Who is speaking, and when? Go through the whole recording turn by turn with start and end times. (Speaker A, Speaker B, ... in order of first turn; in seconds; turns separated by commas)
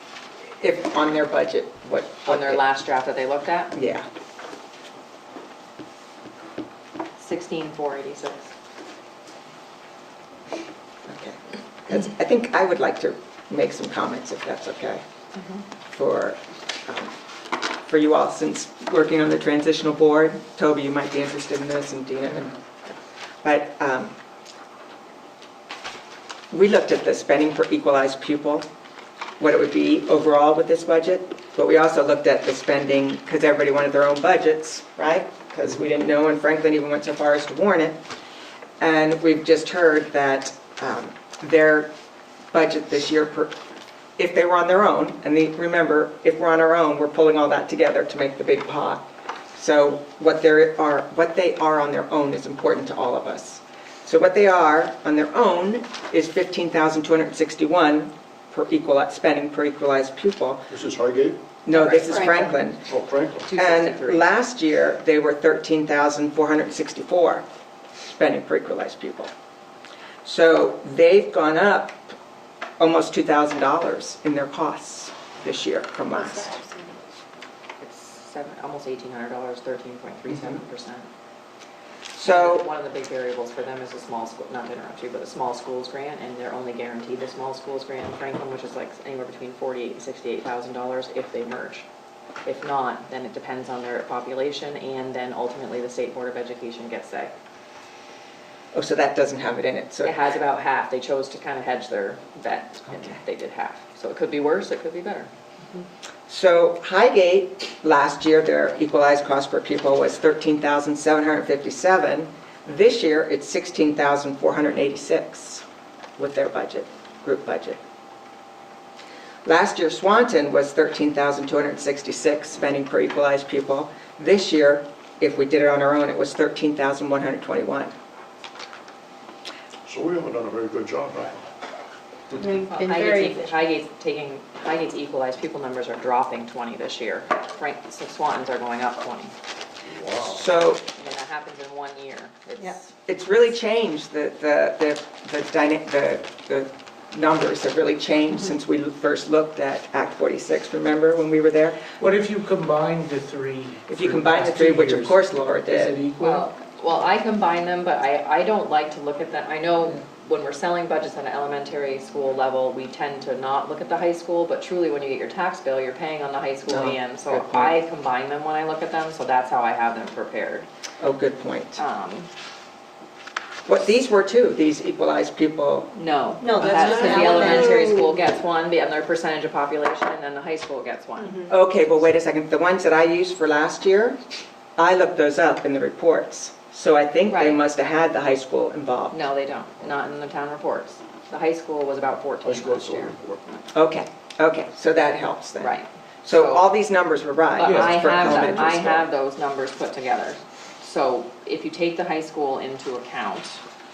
Speaker A: 0.6-2.6, Speaker B: 2.3-3.8, Speaker A: 3.8-4.0, Speaker B: 7.2-8.5, Speaker A: 11.1-15.0, Speaker B: 15.4-15.6, Speaker A: 15.9-22.6, Speaker A: 23.4-24.1, Speaker A: 26.5-28.7, Speaker A: 29.4-38.0, Speaker A: 38.8-41.9, Speaker A: 42.5-43.5, Speaker A: 44.2-60.7, Speaker C: 60.7-61.4, Speaker A: 61.6-62.8, Speaker B: 61.7-62.4, Speaker C: 62.9-63.5, Speaker B: 63.5-64.3, Speaker A: 63.5-67.4, Speaker A: 68.0-69.3, Speaker A: 70.2-72.1, Speaker A: 72.8-76.6, Speaker D: 76.6-77.0, Speaker B: 77.8-81.1, Speaker A: 80.3-80.6, Speaker A: 82.2-82.7, Speaker B: 82.2-91.9, Speaker B: 92.5-97.3, Speaker A: 98.7-100.2, Speaker B: 100.0-105.3, Speaker A: 102.9-103.2, Speaker A: 106.3-115.6, Speaker A: 116.2-117.8, Speaker A: 119.5-127.9, Speaker C: 129.9-131.4, Speaker D: 132.4-133.4, Speaker B: 132.7-139.3, Speaker C: 139.8-140.4, Speaker A: 140.2-140.8, Speaker B: 140.9-142.9, Speaker A: 143.1-151.8, Speaker E: 152.0-156.5, Speaker A: 153.9-156.0, Speaker B: 156.2-170.7, Speaker A: 166.7-167.8, Speaker A: 171.0-171.8, Speaker B: 171.8-172.3, Speaker A: 173.7-175.9, Speaker B: 176.0-181.5, Speaker D: 176.4-178.2, Speaker A: 176.6-177.8, Speaker A: 181.5-184.2, Speaker A: 184.8-189.2, Speaker B: 187.3-187.6, Speaker B: 189.1-193.6, Speaker C: 192.4-193.4, Speaker A: 193.7-199.0, Speaker B: 195.6-196.7, Speaker B: 197.6-203.6, Speaker E: 197.6-198.5